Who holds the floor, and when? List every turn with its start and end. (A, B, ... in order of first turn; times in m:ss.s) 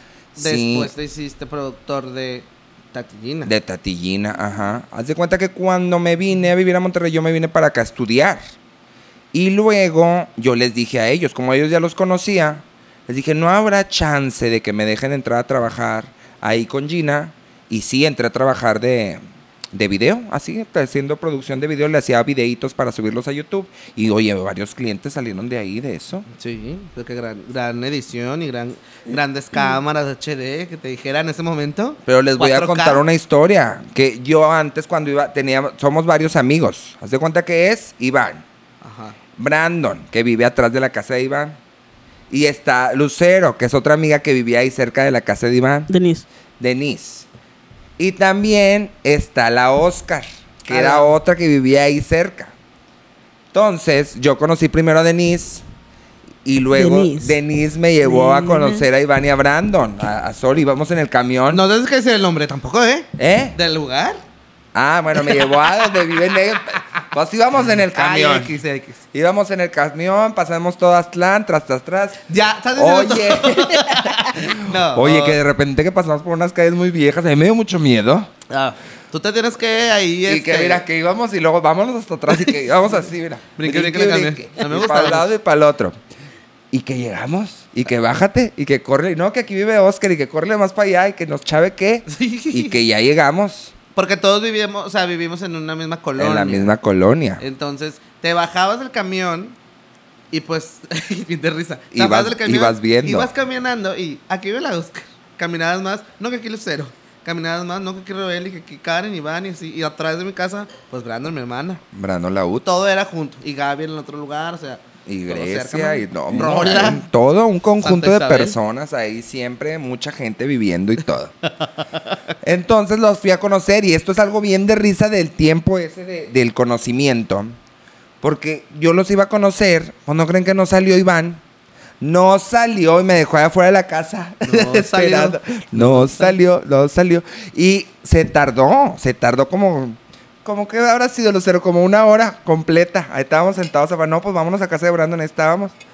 0:00.4-0:00.9 A
0:00.4-0:03.5 B
0:03.4-0:08.4 A
0:09.3-0:19.2 A
0:19.7-0:26.3 A
0:26.3-0:33.0 B
0:32.1-0:38.4 A
0:38.8-0:39.2 B
0:39.4-0:41.6 A
0:42.3-0:45.9 A
0:45.9-0:46.3 C
0:46.6-0:47.3 A
0:48.0-0:52.5 A
0:50.7-0:51.2 B
0:53.5-0:55.6 A
0:56.4-1:01.6 A
0:56.7-0:57.4 C
0:58.0-0:58.9 C
1:01.5-1:04.2 B
1:03.2-1:03.6 A
1:04.7-1:08.6 A
1:05.2-1:05.6 B
1:07.8-1:09.0 B
1:09.1-1:12.2 A
1:12.3-1:15.4 B
1:12.8-1:18.3 A
1:18.5-1:20.8 B
1:20.3-1:26.0 A
1:23.6-1:25.3 B
1:26.7-1:33.7 A
1:32.1-1:32.8 B
1:34.0-1:36.7 B
1:36.2-1:37.4 A
1:37.4-1:39.6 B
1:40.3-1:51.8 B
1:41.9-1:43.3 A
1:51.9-1:52.7 A
1:52.6-1:57.0 B
1:55.1-2:01.3 A
1:57.8-1:58.6 B
2:02.4-2:07.6 A
2:08.2-2:11.4 A
2:12.0-2:25.8 A
2:14.4-2:16.4 B